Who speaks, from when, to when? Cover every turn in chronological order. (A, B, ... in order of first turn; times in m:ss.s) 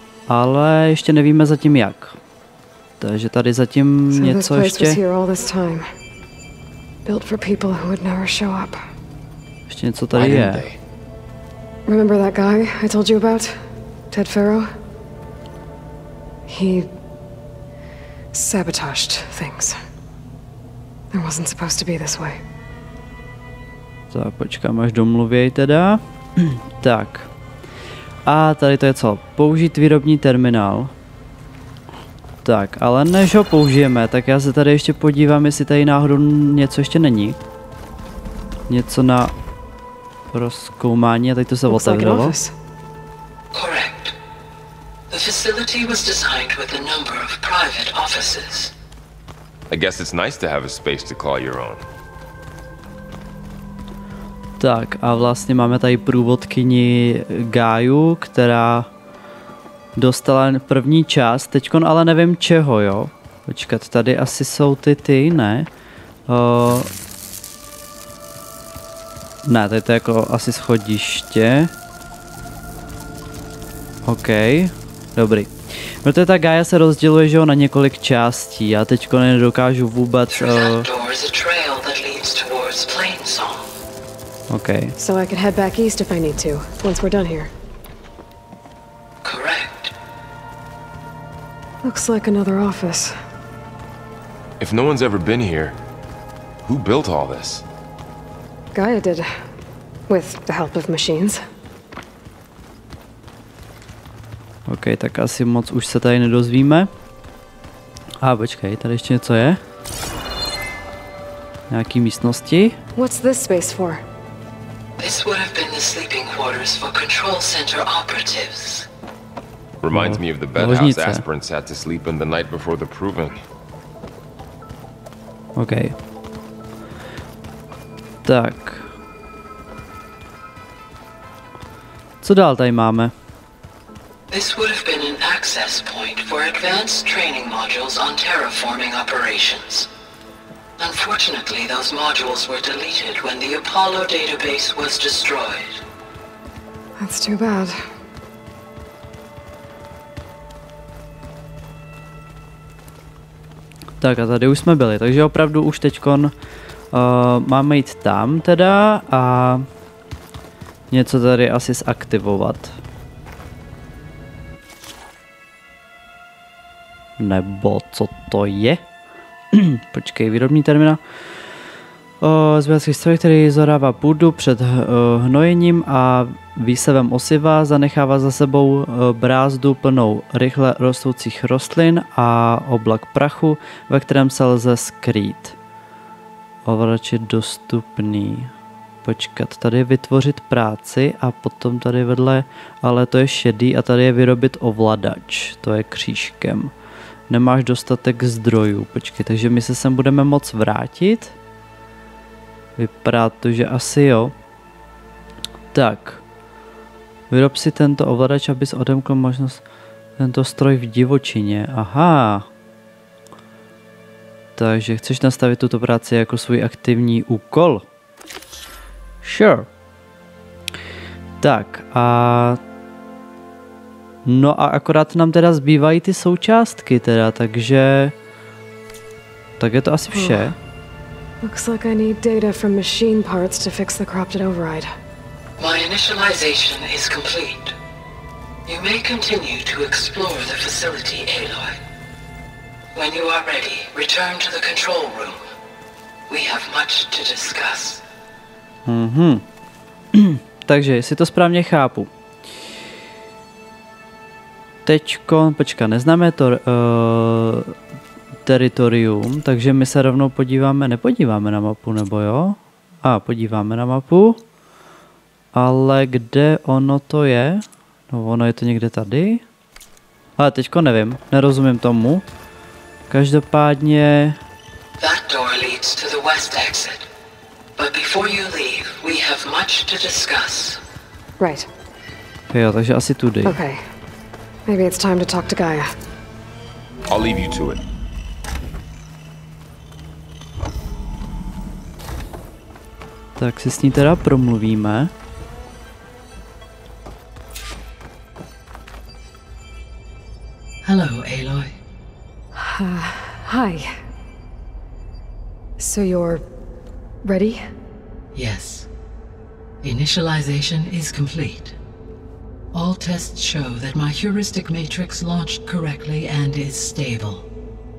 0:00.3-0:02.2 A
0:03.0-0:05.0 A
0:04.1-0:05.9 B
0:07.0-0:08.8 B
0:09.7-0:10.6 A
0:10.1-0:10.8 C
0:11.9-0:14.7 B
0:16.5-0:16.9 B
0:18.3-0:19.8 B
0:21.1-0:22.4 B
0:24.1-0:27.3 A
0:28.3-0:30.9 A
0:32.4-0:37.4 A
0:38.7-0:39.3 A
0:40.3-0:42.4 A
0:41.7-0:42.6 B
0:43.5-0:44.1 D
0:45.1-0:48.7 D
0:49.7-0:51.8 C
0:54.6-0:58.9 A
1:00.0-1:05.7 A
1:06.3-1:06.9 A
1:09.4-1:11.7 A
1:14.1-1:20.9 A
1:20.3-1:23.7 D
1:24.5-1:25.0 A
1:25.0-1:27.5 B
1:29.2-1:29.9 D
1:31.8-1:33.2 B
1:34.6-1:35.8 C
1:36.6-1:37.6 C
1:38.7-1:39.3 B
1:40.1-1:41.4 B
1:44.7-1:46.9 A
1:48.2-1:49.6 A
1:51.7-1:52.8 A
1:53.0-1:54.0 B
1:55.0-1:58.9 D
1:59.8-2:03.4 C
1:59.9-2:01.2 A
2:05.6-2:06.0 A
2:08.2-2:08.9 A
2:12.2-2:13.1 A
2:14.3-2:19.9 D
2:20.8-2:25.8 D
2:27.0-2:27.9 B
2:34.0-2:36.3 A
2:36.9-2:39.7 A
2:40.9-2:42.8 A
2:47.2-2:48.8 A
2:49.5-2:51.0 A
2:52.2-3:05.6 A
3:06.6-3:08.5 A
3:09.0-3:16.7 A
3:17.3-3:21.4 A
3:22.8-3:24.3 A
3:25.7-3:26.2 A
3:27.3-3:29.6 A
3:30.2-3:32.5 A
3:34.6-3:37.9 A
3:39.2-3:39.7 A
3:41.4-3:42.6 A
3:44.2-3:48.1 A
3:49.6-3:50.6 A
3:50.1-3:50.5 B
3:51.4-3:54.9 B
3:55.6-3:57.8 D
3:58.7-4:01.8 D
4:03.0-4:05.4 D
4:06.3-4:08.0 D
4:08.9-4:09.4 A
4:10.1-4:12.1 A
4:14.9-4:17.8 A
4:18.5-4:24.4 A
4:25.5-4:29.4 A
4:30.4-4:32.2 A
4:33.1-4:34.4 A
4:35.0-4:37.1 D
4:37.8-4:40.8 D
4:41.4-4:41.7 B
4:42.5-4:43.6 A
4:43.4-4:43.8 B
4:44.7-4:45.9 B
4:47.1-4:47.8 C
4:53.4-4:55.1 A
5:00.8-5:01.8 D
5:02.6-5:04.0 B
5:05.8-5:06.5 B
5:07.2-5:07.7 B
5:08.4-5:08.9 D
5:09.8-5:11.8 D
5:12.7-5:17.5 D